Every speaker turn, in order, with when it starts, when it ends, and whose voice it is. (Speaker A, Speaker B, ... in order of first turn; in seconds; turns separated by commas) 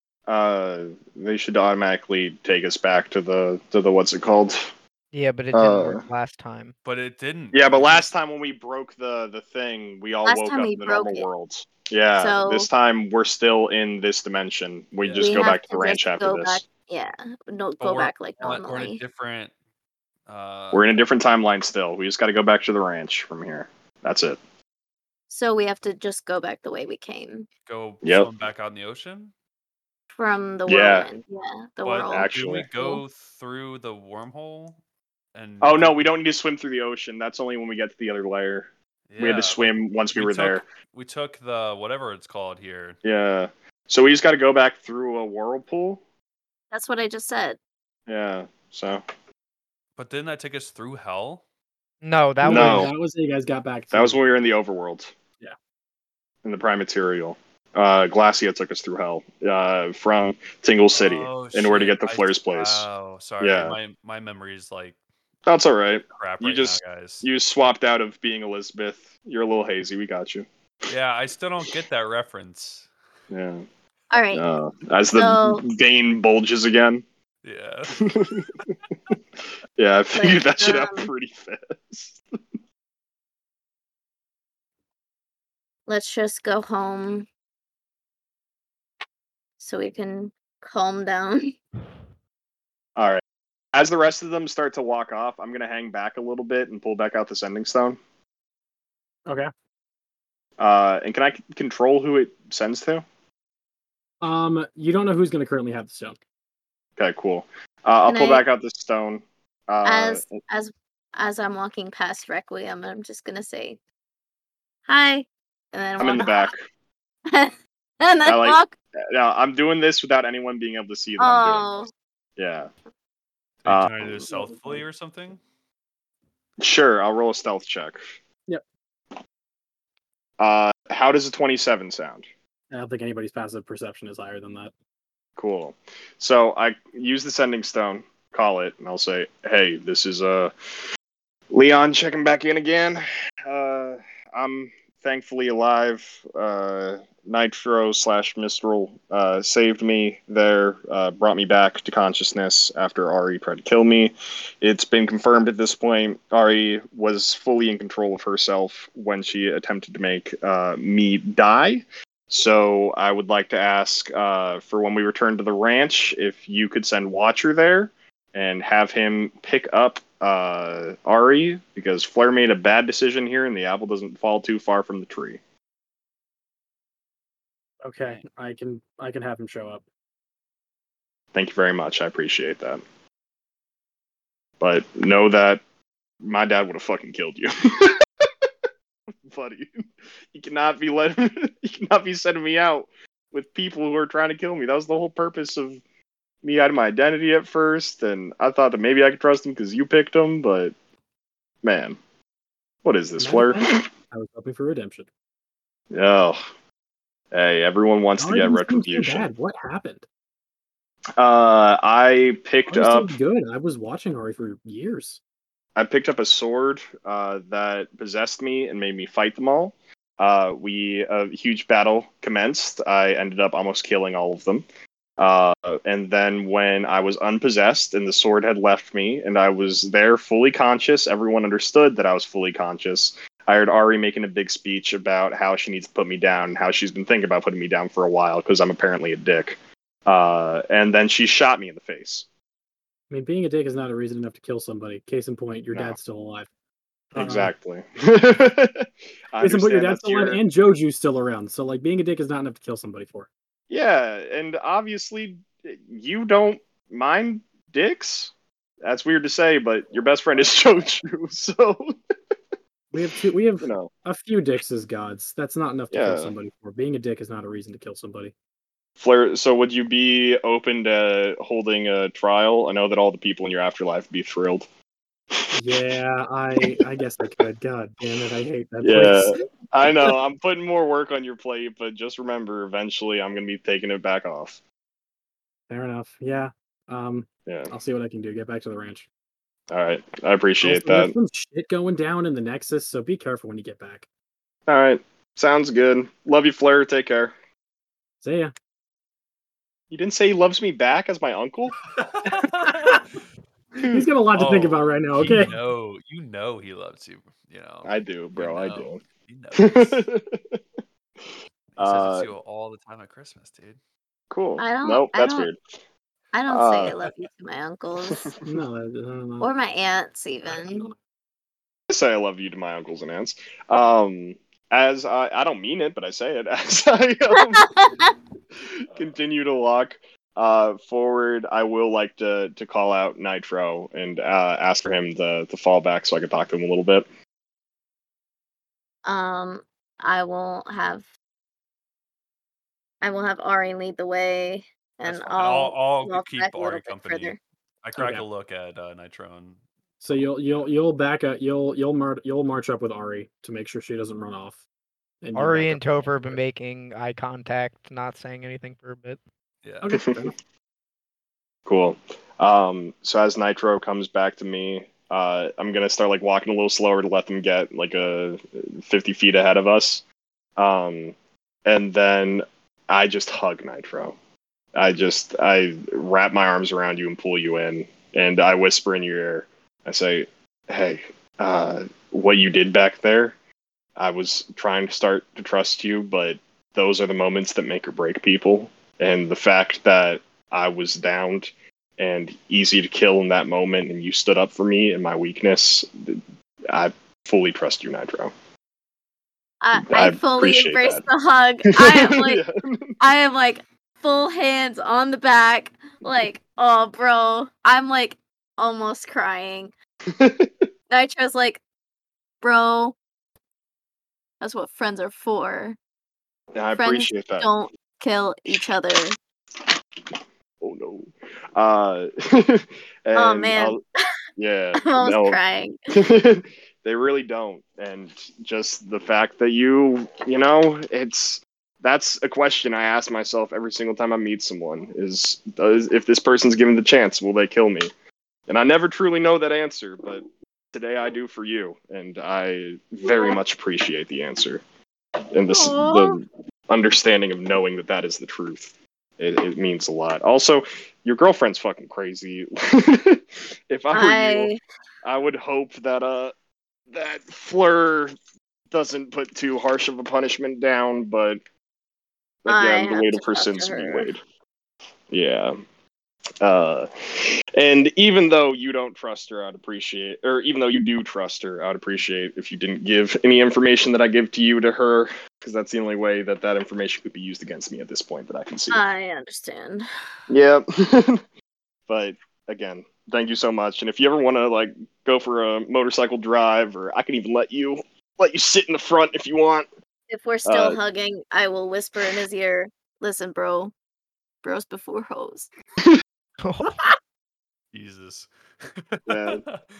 Speaker A: 0.3-4.7, Speaker B: 5.1-6.7, Speaker A: 5.5-6.0, Speaker C: 6.8-8.1, Speaker A: 7.5-16.6, Speaker D: 10.2-11.3, Speaker D: 12.2-12.7, Speaker C: 15.0-15.4, Speaker D: 15.2-19.0, Speaker C: 17.8-19.5, Speaker C: 20.3-20.9, Speaker A: 20.7-24.4, Speaker D: 25.3-27.5, Speaker C: 27.6-29.3, Speaker A: 28.0-28.3, Speaker D: 30.1-33.0, Speaker A: 30.7-31.1, Speaker C: 31.8-34.8, Speaker A: 32.0-32.7, Speaker C: 35.3-36.1, Speaker A: 35.6-40.6, Speaker C: 39.1-43.0, Speaker A: 43.0-46.0, Speaker D: 46.7-47.6, Speaker A: 48.1-49.0, Speaker C: 50.0-51.4, Speaker B: 52.0-52.9, Speaker E: 52.4-54.2, Speaker A: 52.5-52.9, Speaker A: 53.9-55.1, Speaker A: 56.4-62.9, Speaker C: 60.9-65.0, Speaker A: 63.4-63.8, Speaker A: 65.5-70.5, Speaker C: 66.2-67.3, Speaker C: 70.9-72.9, Speaker A: 73.3-73.6, Speaker D: 74.1-74.4, Speaker A: 74.3-77.0, Speaker D: 75.1-75.6, Speaker C: 77.4-78.2, Speaker A: 78.0-79.1, Speaker A: 79.8-82.2, Speaker D: 80.1-81.1, Speaker D: 85.9-87.3, Speaker D: 89.6-91.6, Speaker A: 93.0-93.2, Speaker A: 93.7-98.0, Speaker A: 100.6-103.0, Speaker E: 104.2-106.2, Speaker A: 107.0-110.3, Speaker D: 108.0-108.4, Speaker D: 109.8-113.8, Speaker D: 114.8-116.5, Speaker A: 116.0-116.6, Speaker D: 117.3-118.7, Speaker A: 118.2-118.6, Speaker A: 119.1-121.7, Speaker D: 121.2-121.9, Speaker A: 122.4-122.7, Speaker C: 123.6-125.4, Speaker A: 123.7-124.3, Speaker E: 124.3-124.8, Speaker A: 126.6-128.0, Speaker A: 130.4-132.2, Speaker E: 132.7-134.7, Speaker A: 135.4-140.5, Speaker A: 141.5-175.4, Speaker E: 177.8-179.8, Speaker A: 181.3-182.8, Speaker A: 184.6-185.6, Speaker A: 186.2-188.3, Speaker A: 189.3-195.8, Speaker A: 196.4-200.7, Speaker A: 201.6-202.0, Speaker A: 202.8-203.9, Speaker E: 203.2-205.1, Speaker A: 205.9-206.4, Speaker A: 207.3-209.3, Speaker E: 208.2-210.0, Speaker A: 211.2-213.2, Speaker E: 212.7-215.2, Speaker A: 215.8-224.6, Speaker A: 225.2-242.2, Speaker E: 243.1-246.5, Speaker E: 247.1-247.5, Speaker A: 247.1-250.4, Speaker E: 249.4-253.3, Speaker A: 253.7-261.9, Speaker E: 262.9-268.3, Speaker A: 263.6-263.9, Speaker A: 265.9-266.3, Speaker A: 269.0-274.6, Speaker A: 275.3-275.9, Speaker E: 275.5-280.1, Speaker A: 276.6-277.4, Speaker A: 278.8-284.6, Speaker E: 285.7-289.1, Speaker A: 287.4-287.7, Speaker A: 289.7-291.1, Speaker E: 290.6-294.1, Speaker A: 294.7-297.3, Speaker E: 298.2-298.5, Speaker A: 299.9-301.8, Speaker C: 301.9-303.0, Speaker E: 302.4-303.0, Speaker A: 303.8-304.1, Speaker E: 303.9-305.6, Speaker C: 304.3-310.0, Speaker A: 307.8-309.0, Speaker A: 309.6-310.6, Speaker C: 311.8-313.8, Speaker A: 311.8-312.3, Speaker A: 314.3-315.6, Speaker D: 314.6-315.5, Speaker D: 316.3-318.3, Speaker A: 316.5-317.0, Speaker A: 318.1-318.4, Speaker E: 318.4-319.5, Speaker D: 319.4-320.9, Speaker E: 320.5-320.9, Speaker A: 321.9-327.7, Speaker D: 327.4-328.1, Speaker A: 328.8-337.1, Speaker D: 339.0-341.1, Speaker D: 343.0-347.4, Speaker C: 345.0-349.6, Speaker E: 347.9-348.2, Speaker E: 350.0-354.6, Speaker E: 355.2-356.4, Speaker B: 355.3-359.2, Speaker E: 359.8-360.3, Speaker A: 359.9-360.3, Speaker A: 361.6-370.0, Speaker A: 370.6-371.1, Speaker A: 371.6-374.1, Speaker A: 374.7-383.3, Speaker A: 384.0-398.3, Speaker D: 399.6-402.4, Speaker A: 399.8-401.0, Speaker A: 401.7-402.9, Speaker D: 403.0-409.7, Speaker A: 410.1-410.7, Speaker D: 410.9-411.6, Speaker D: 412.4-412.9, Speaker D: 414.4-415.8, Speaker A: 416.5-417.5, Speaker D: 416.8-419.2, Speaker A: 420.6-423.8, Speaker D: 423.1-423.8, Speaker A: 424.4-425.4, Speaker D: 424.8-425.8, Speaker A: 425.9-437.9, Speaker A: 438.5-444.6, Speaker D: 443.0-443.4, Speaker A: 445.3-454.5, Speaker D: 445.4-446.2, Speaker D: 453.9-454.6, Speaker A: 455.0-456.3, Speaker A: 456.9-458.1, Speaker A: 458.7-461.4, Speaker A: 462.4-464.2, Speaker D: 462.5-464.1, Speaker A: 465.1-465.6, Speaker A: 466.4-478.8, Speaker D: 478.7-479.9, Speaker A: 480.3-481.2, Speaker A: 481.9-489.7, Speaker D: 490.1-493.7, Speaker A: 490.4-490.8, Speaker D: 494.4-495.5, Speaker B: 496.4-496.8, Speaker C: 497.7-499.6, Speaker A: 499.1-499.4